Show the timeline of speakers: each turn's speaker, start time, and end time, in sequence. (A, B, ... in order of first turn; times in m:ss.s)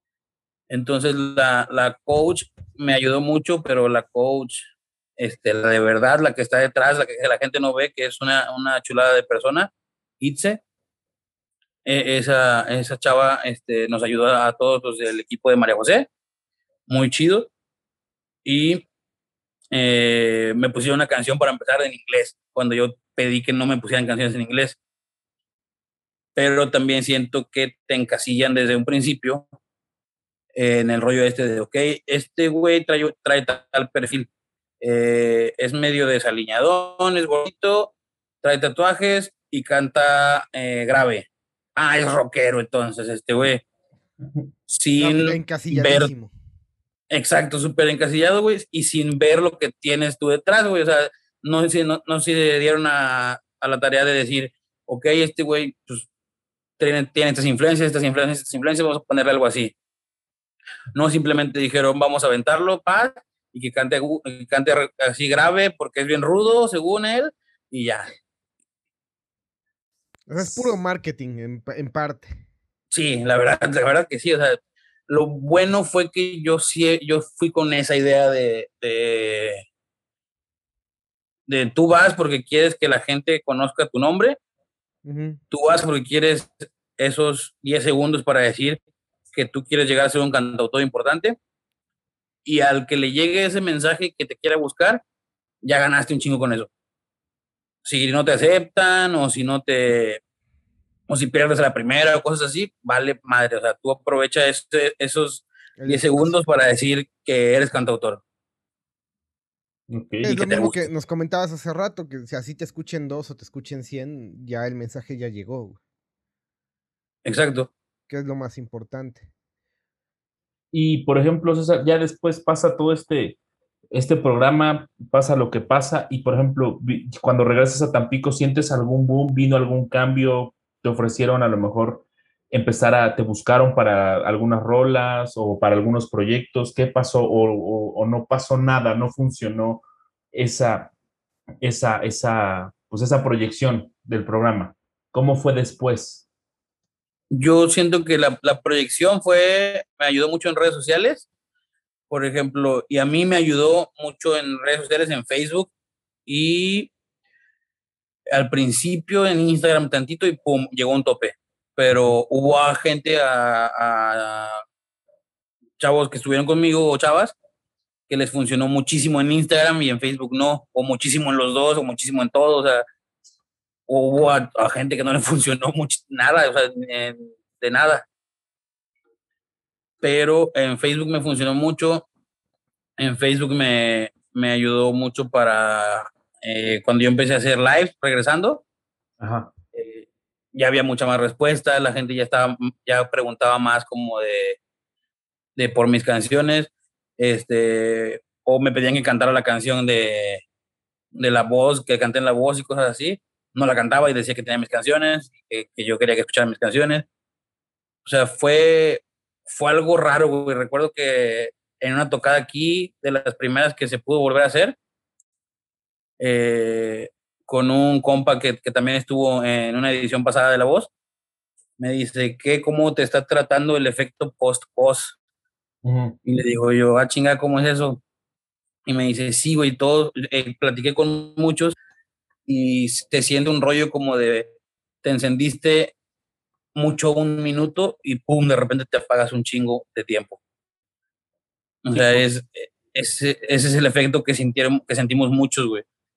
0:00.7-0:10.6 A
0:11.8-0:16.1 A
0:16.9-0:17.5 A
0:18.4-0:18.8 A
0:19.7-0:24.8 A
0:26.3-0:29.4 A
0:30.5-0:34.3 A
0:34.8-0:43.6 A
0:44.7-0:46.1 A
0:45.0-0:46.3 B
0:47.1-0:56.1 A
0:56.8-0:59.7 A
1:00.9-1:08.1 A
1:10.3-1:12.4 B
1:12.9-1:19.6 A
1:21.5-1:24.4 A
1:25.0-1:25.4 B
1:25.5-1:28.8 A
1:29.3-1:31.4 A
1:32.4-1:35.0 A
1:35.6-1:36.7 A
1:37.8-1:40.2 A
1:41.1-1:48.2 A
1:45.8-1:46.3 B
1:49.9-1:50.4 C
1:50.2-1:55.8 B
1:50.3-1:50.9 A
1:57.2-1:57.7 A
1:58.1-1:59.3 B
2:00.7-2:03.4 C
2:03.9-2:20.9 C
2:21.6-2:26.2 C
2:27.3-2:31.3 A
2:32.1-2:35.7 A
2:36.2-2:36.9 A
2:38.3-2:44.6 A
2:45.8-2:47.3 A
2:48.1-2:52.8 A
2:53.9-2:58.1 A
3:00.0-3:02.1 A
3:03.0-3:08.6 A
3:09.2-3:09.5 C
3:09.7-3:14.6 A
3:15.6-3:20.4 A
3:21.1-3:27.0 A
3:28.0-3:34.8 A
3:36.2-3:40.9 A
3:41.8-3:45.2 A
3:45.8-3:46.2 C
3:46.2-3:48.0 A
3:48.8-3:51.7 A
3:52.4-3:55.9 A
3:56.7-4:00.4 A
4:01.8-4:05.8 A
4:01.9-4:02.2 C